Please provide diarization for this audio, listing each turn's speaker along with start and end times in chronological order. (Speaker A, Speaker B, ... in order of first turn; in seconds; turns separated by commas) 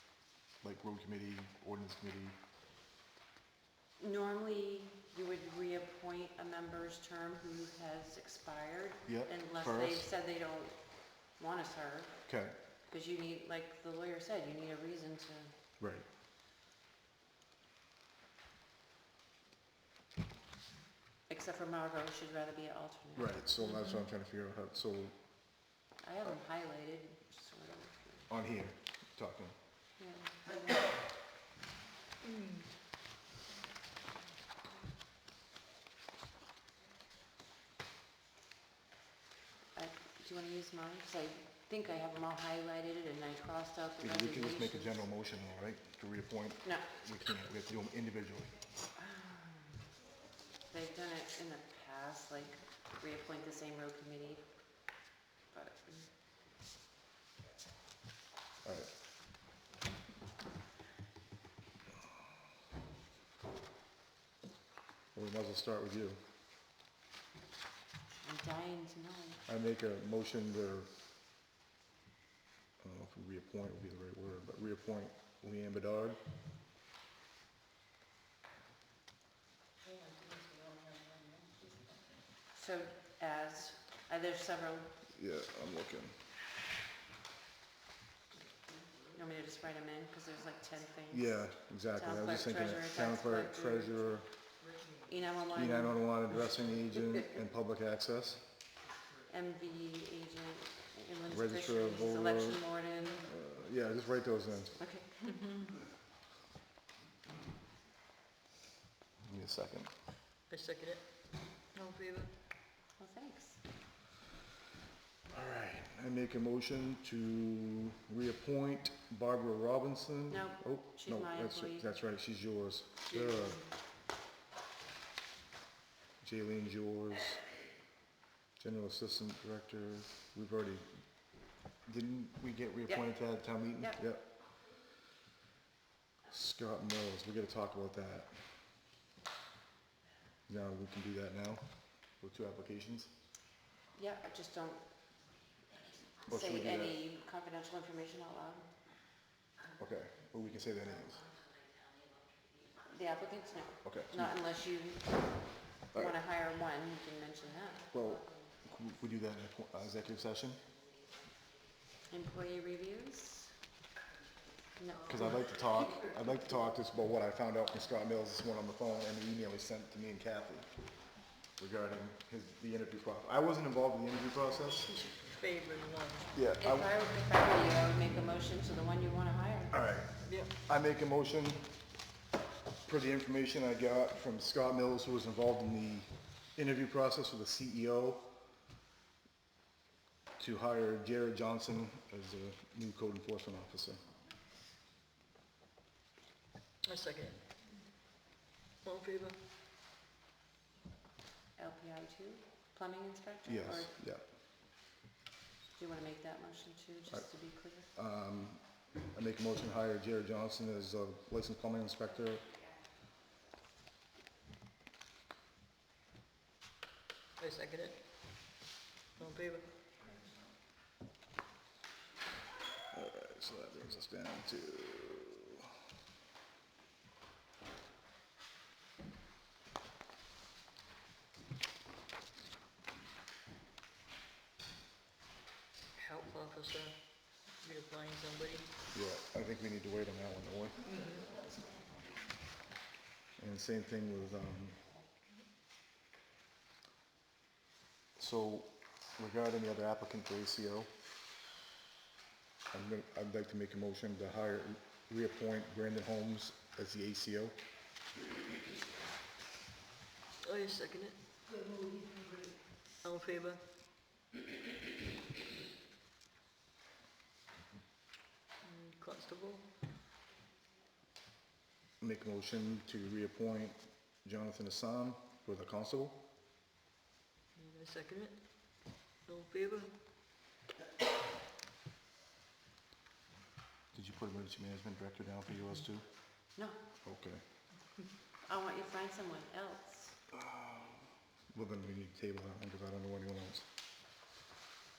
Speaker A: 0.6-2.4, Speaker B: 4.0-12.3, Speaker A: 9.1-10.1, Speaker A: 12.3-12.6, Speaker B: 12.9-15.6, Speaker A: 15.8-16.1, Speaker B: 21.3-23.4, Speaker A: 23.1-25.2, Speaker B: 26.0-28.3, Speaker A: 28.3-29.5, Speaker B: 30.0-30.6, Speaker B: 39.7-45.0, Speaker A: 44.0-48.5, Speaker B: 49.0-49.6, Speaker B: 50.7-54.4, Speaker B: 55.5-56.1, Speaker A: 58.6-58.9, Speaker A: 65.1-66.2, Speaker B: 68.2-69.4, Speaker A: 69.5-70.9, Speaker A: 72.8-76.2, Speaker B: 82.5-84.9, Speaker A: 85.1-86.2, Speaker B: 89.1-94.1, Speaker A: 91.1-94.3, Speaker B: 95.0-96.0, Speaker A: 95.5-98.5, Speaker B: 99.3-103.3, Speaker A: 101.3-102.6, Speaker A: 103.2-104.8, Speaker B: 104.8-105.3, Speaker C: 105.3-105.7, Speaker A: 109.2-109.9, Speaker C: 110.5-112.3, Speaker B: 113.0-113.6, Speaker A: 115.3-123.7, Speaker B: 120.3-121.9, Speaker A: 126.2-127.4, Speaker A: 128.6-130.9, Speaker A: 131.8-134.3, Speaker A: 136.3-138.4, Speaker A: 140.5-143.1, Speaker B: 143.9-144.8, Speaker B: 146.2-148.7, Speaker A: 146.3-147.0, Speaker A: 149.8-151.2, Speaker B: 152.9-157.9, Speaker A: 153.8-154.4, Speaker A: 157.9-160.6, Speaker B: 162.1-163.5, Speaker B: 164.8-165.4, Speaker A: 165.1-170.7, Speaker A: 171.6-175.0, Speaker C: 174.9-176.3, Speaker A: 176.3-176.9, Speaker B: 176.6-179.8, Speaker A: 179.7-181.8, Speaker C: 180.2-180.5, Speaker A: 182.8-188.3, Speaker A: 190.4-194.0, Speaker C: 196.8-197.5, Speaker C: 198.8-199.4, Speaker B: 201.6-203.9, Speaker A: 203.4-204.2, Speaker B: 205.7-207.9, Speaker A: 207.1-212.5, Speaker C: 217.4-218.6, Speaker C: 219.2-219.7, Speaker A: 222.9-225.7, Speaker C: 235.9-238.7, Speaker A: 238.9-240.9, Speaker C: 240.9-241.3, Speaker A: 243.4-244.9, Speaker A: 248.2-250.9, Speaker A: 252.7-257.6, Speaker C: 260.4-261.2, Speaker C: 263.0-263.7, Speaker C: 268.6-269.7, Speaker A: 272.0-276.2, Speaker C: 277.5-280.0, Speaker A: 283.9-286.1, Speaker B: 286.5-286.8, Speaker A: 287.0-287.4, Speaker B: 288.4-290.2, Speaker A: 290.4-293.7